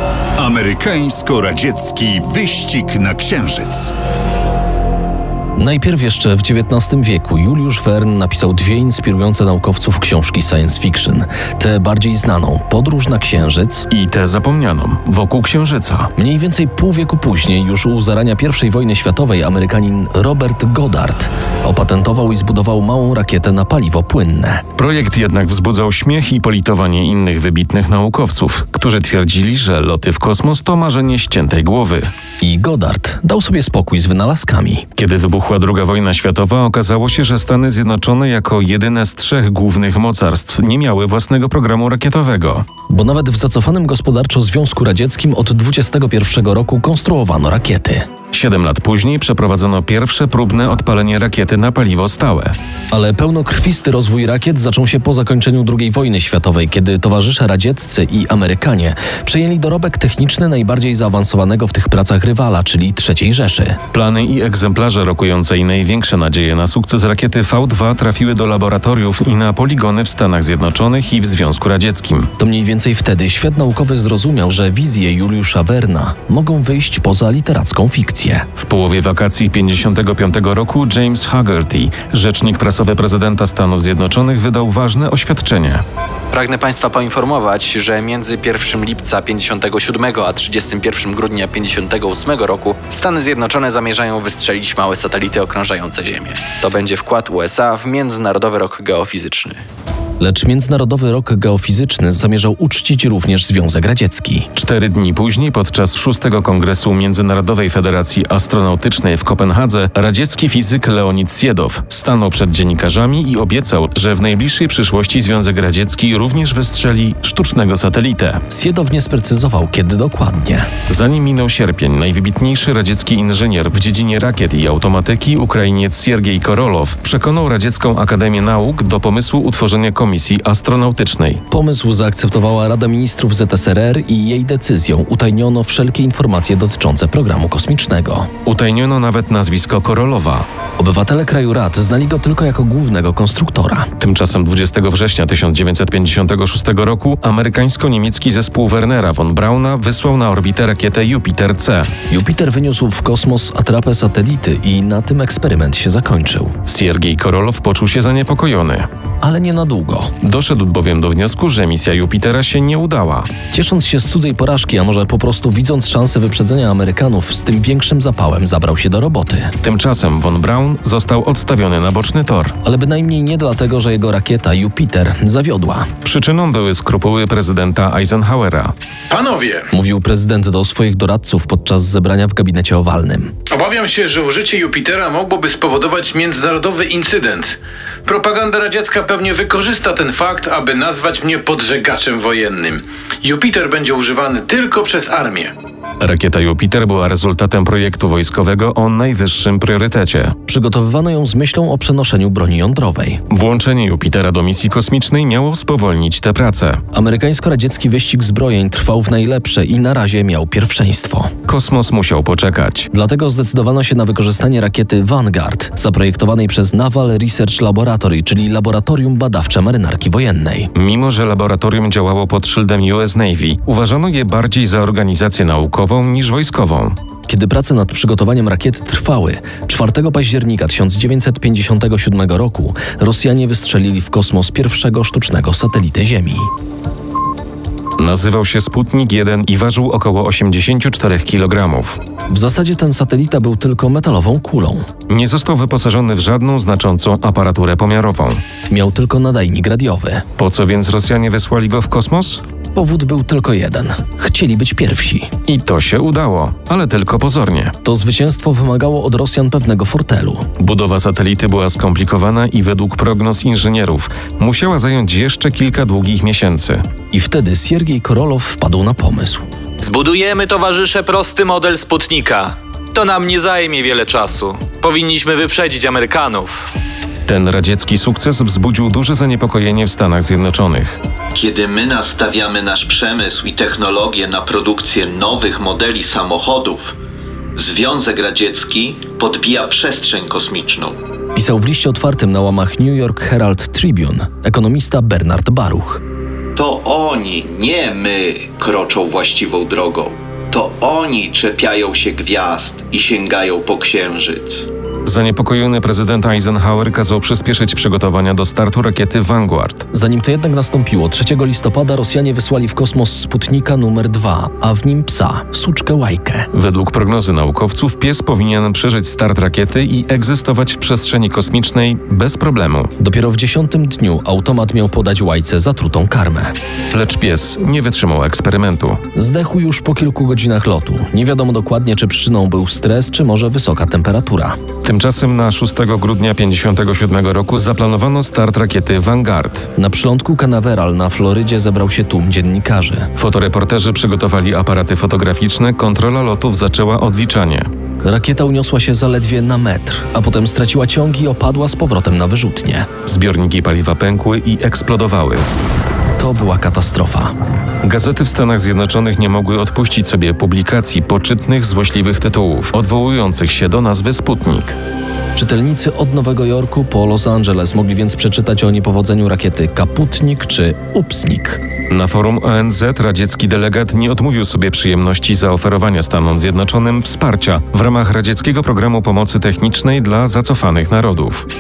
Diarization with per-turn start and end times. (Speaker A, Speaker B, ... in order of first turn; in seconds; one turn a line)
Speaker A: 0.4-3.9
Speaker B: 5.6-13.9
Speaker C: 13.9-16.1
Speaker B: 16.2-24.6
Speaker C: 24.8-32.1
Speaker B: 32.4-34.9
Speaker C: 35.0-42.7
Speaker B: 42.9-48.1
Speaker C: 48.3-52.5
Speaker B: 52.9-63.8
Speaker C: 63.9-72.3
Speaker B: 72.4-78.5
Speaker C: 78.6-85.8
Speaker D: 86.3-99.6
Speaker B: 100.2-104.5
Speaker C: 104.5-118.4
Speaker B: 118.5-120.7
Speaker C: 120.9-131.4
Speaker B: 131.5-138.3
Speaker C: 138.4-140.5
Speaker B: 140.8-143.9
Speaker C: 144.0-151.9
Speaker B: 152.1-156.5
Speaker C: 156.7-158.9
Speaker B: 159.2-160.1
Speaker C: 160.2-163.3
Speaker B: 163.5-169.5
Speaker C: 169.6-172.6
Speaker B: 172.6-175.9
Speaker C: 176.0-178.7
Speaker E: 179.1-179.6
Speaker B: 179.7-183.3
Speaker E: 183.5-195.5
Speaker C: 196.0-200.3
Speaker B: 200.5-203.2
Speaker C: 203.3-206.8
Speaker B: 206.9-211.3
Speaker C: 211.4-212.9
Speaker B: 212.9-220.7
Speaker C: 220.8-227.0
Speaker B: 227.3-236.5
Speaker C: 238.0-242.0
Speaker B: 242.3-244.9
Speaker C: 245.1-248.4
Speaker B: 248.7-250.2
Speaker C: 250.4-252.4
Speaker B: 252.7-255.3
Speaker C: 255.5-257.8
Speaker B: 257.8-260.5
Speaker C: 260.6-266.8
Speaker B: 267.1-269.4
Speaker F: 269.9-276.6
Speaker C: 277.2-281.0
Speaker G: 281.3-286.9
Speaker G: 287.6-291.0
Speaker B: 291.3-296.0
Speaker G: 296.6-304.7
Speaker C: 305.1-309.9
Speaker B: 309.9-316.5
Speaker C: 316.5-322.9
Speaker B: 323.0-326.5
Speaker C: 326.9-329.0
Speaker B: 329.1-334.6
Speaker C: 334.8-339.7
Speaker B: 339.8-343.1
Speaker C: 343.1-347.7
Speaker B: 348.0-352.9
Speaker C: 353.1-355.5
Speaker B: 356.2-357.3
Speaker C: 357.8-364.8
Speaker B: 365.3-371.6
Speaker C: 371.9-381.5